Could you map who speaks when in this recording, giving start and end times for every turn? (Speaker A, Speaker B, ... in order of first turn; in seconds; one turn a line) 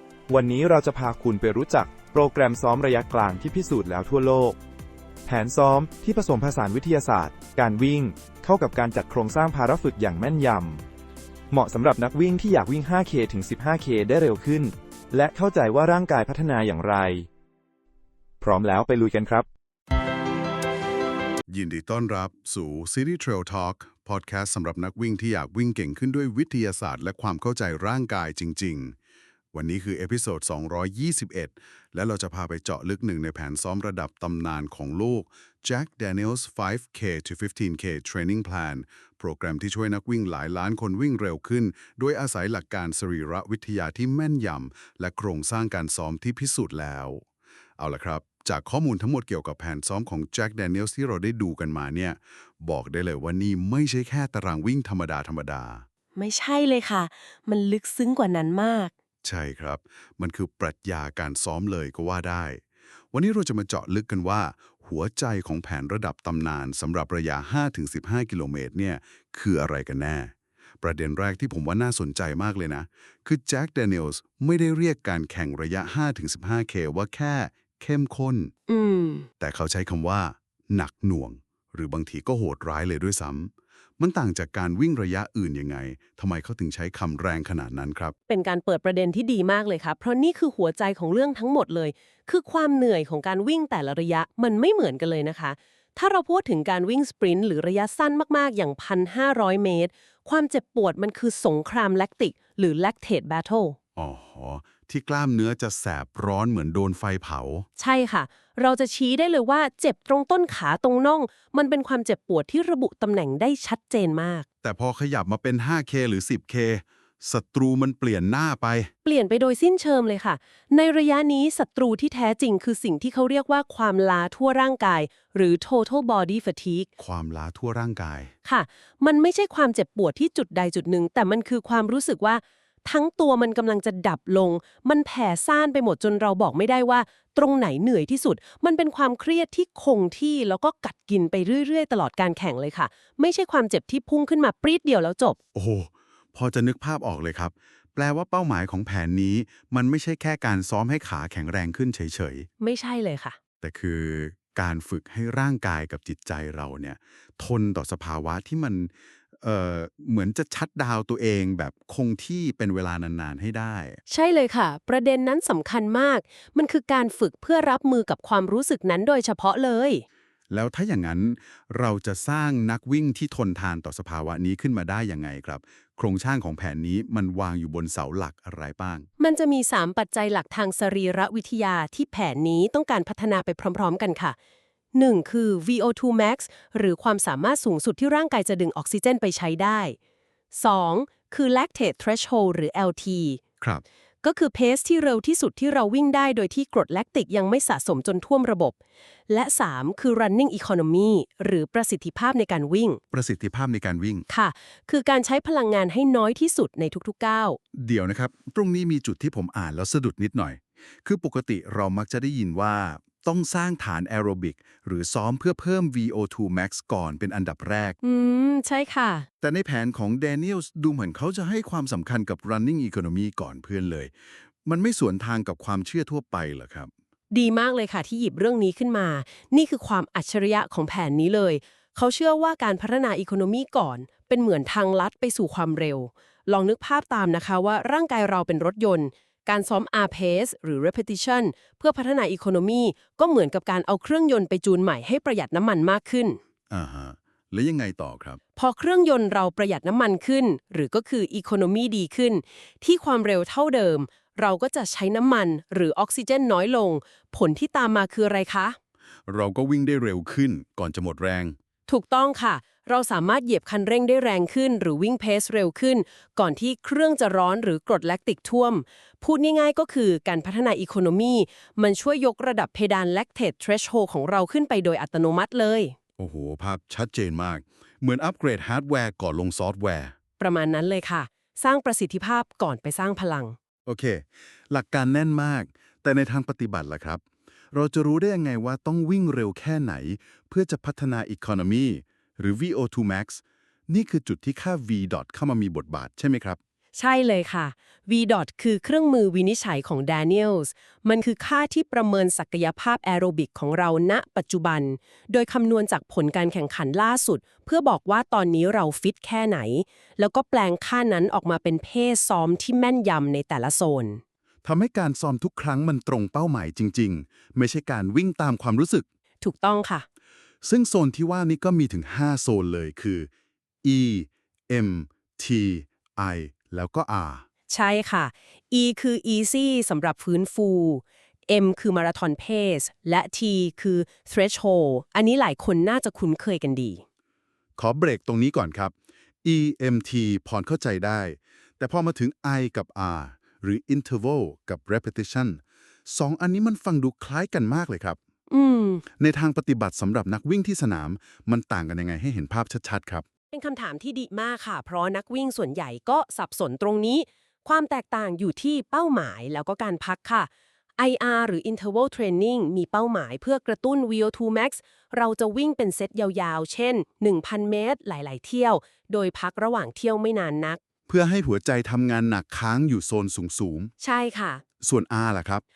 Speaker A: 0.3-4.6
Speaker A: 5.2-10.8
Speaker A: 11.5-17.3
Speaker A: 18.4-19.4
Speaker B: 21.5-28.9
Speaker B: 29.5-47.2
Speaker B: 47.8-55.8
Speaker C: 56.1-58.9
Speaker B: 59.2-62.6
Speaker B: 63.1-78.5
Speaker C: 78.7-79.3
Speaker B: 79.4-88.1
Speaker C: 88.3-103.8
Speaker B: 104.0-107.7
Speaker C: 107.8-114.5
Speaker B: 114.6-118.9
Speaker C: 119.0-126.9
Speaker B: 127.0-128.3
Speaker C: 128.4-145.4
Speaker B: 145.5-152.5
Speaker C: 152.6-153.4
Speaker B: 153.6-164.0
Speaker C: 164.1-170.0
Speaker B: 170.5-179.1
Speaker C: 179.2-184.3
Speaker C: 184.9-190.0
Speaker C: 190.5-193.4
Speaker C: 194.2-198.8
Speaker C: 199.3-203.0
Speaker B: 203.1-204.2
Speaker C: 204.3-207.6
Speaker B: 207.7-217.9
Speaker C: 218.0-219.3
Speaker B: 219.4-226.9
Speaker C: 227.3-246.4
Speaker B: 246.7-248.4
Speaker C: 248.5-258.8
Speaker B: 259.3-261.6
Speaker C: 261.9-275.9
Speaker B: 276.2-280.1
Speaker C: 280.4-283.6
Speaker B: 283.9-296.6
Speaker C: 296.9-314.2
Speaker B: 314.6-319.0
Speaker C: 319.4-320.1
Speaker B: 320.6-323.3
Speaker B: 323.8-327.4
Speaker C: 327.7-337.0
Speaker B: 337.8-348.2
Speaker C: 348.5-349.0
Speaker B: 349.2-353.2
Speaker C: 353.5-370.8
Speaker B: 371.1-373.9
Speaker C: 374.0-374.6
Speaker B: 374.8-375.6